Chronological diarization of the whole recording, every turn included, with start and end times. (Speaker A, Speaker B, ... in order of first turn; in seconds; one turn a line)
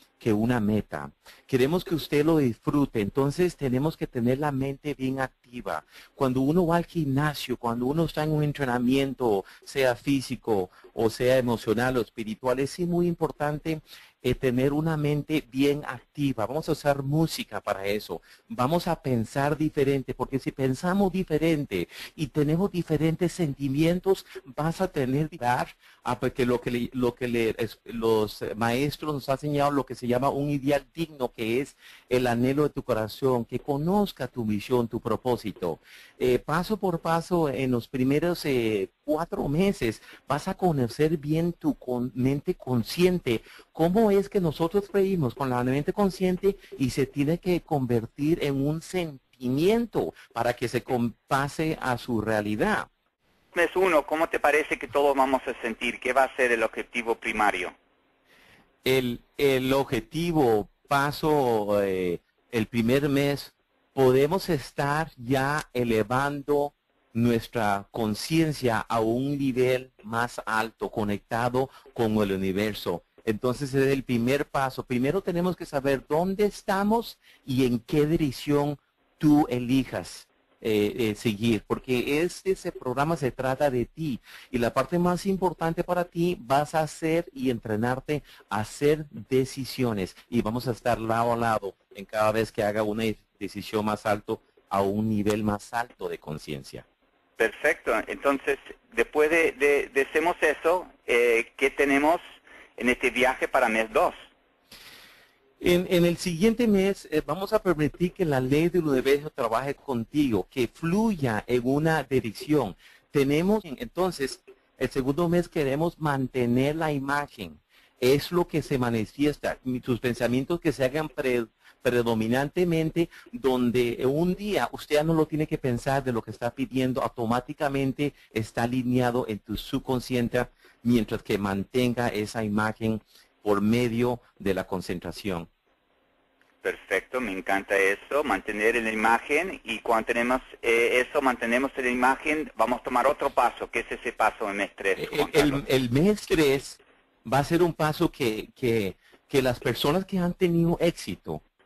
Speaker A: 0.2-52.9
Speaker B: 53.5-57.8
Speaker A: 58.8-96.8
Speaker B: 97.4-102.2
Speaker B: 102.8-104.2
Speaker A: 105.6-135.5
Speaker B: 136.6-145.6
Speaker A: 145.0-151.4